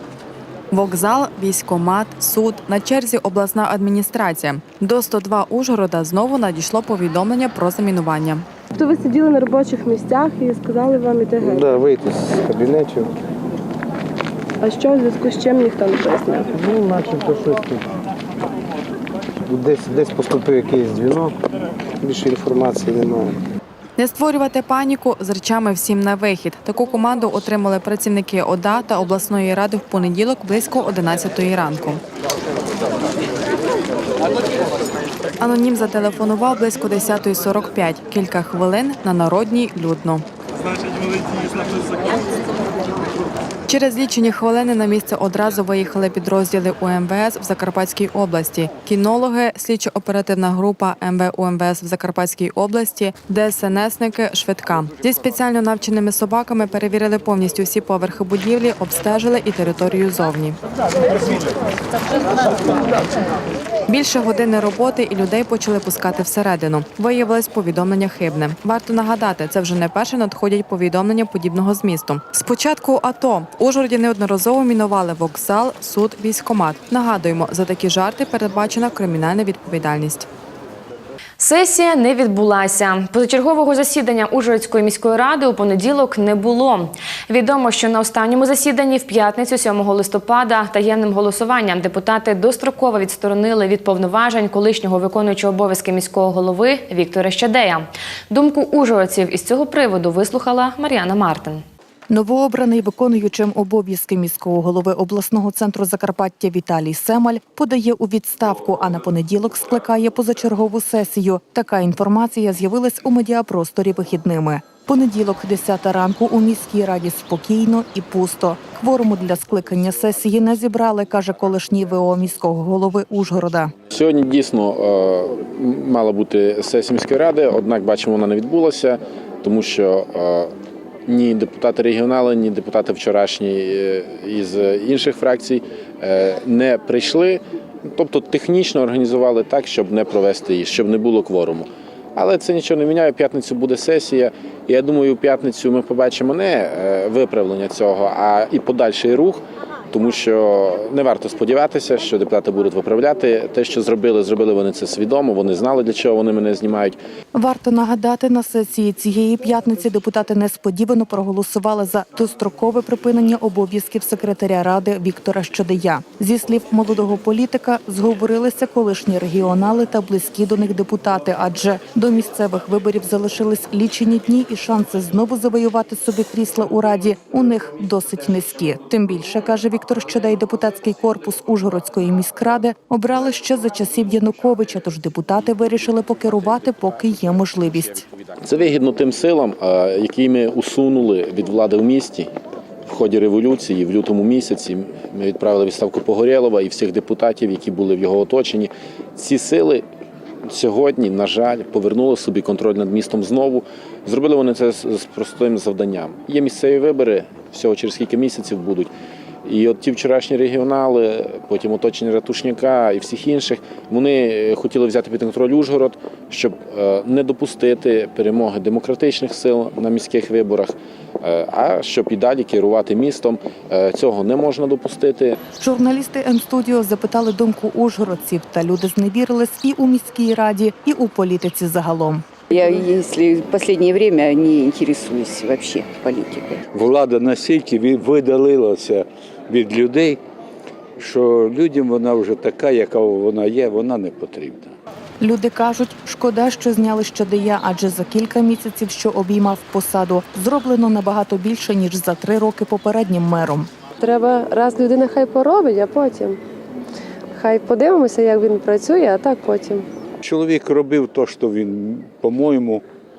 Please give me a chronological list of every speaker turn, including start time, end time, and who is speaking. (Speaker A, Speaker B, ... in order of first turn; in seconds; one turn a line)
Speaker A: 0.7-8.5
Speaker B: 8.7-11.8
Speaker C: 11.5-13.1
Speaker B: 14.6-16.6
Speaker C: 16.7-17.8
Speaker C: 19.5-21.3
Speaker C: 22.0-23.3
Speaker A: 24.0-32.0
Speaker A: 35.4-40.2
Speaker A: 43.7-60.6
Speaker A: 63.9-80.3
Speaker D: 81.4-101.6
Speaker E: 102.1-123.7
Speaker F: 123.9-130.5
Speaker F: 131.1-157.0
Speaker E: 157.3-188.1
Speaker F: 188.4-192.3
Speaker F: 192.8-199.8
Speaker F: 200.4-208.9
Speaker F: 209.4-225.4
Speaker E: 225.6-232.2
Speaker G: 232.5-236.6
Speaker H: 236.7-240.2
Speaker H: 241.0-244.7
Speaker E: 245.2-253.7
Speaker B: 254.0-256.4
Speaker B: 257.3-259.8
Speaker H: 260.2-262.8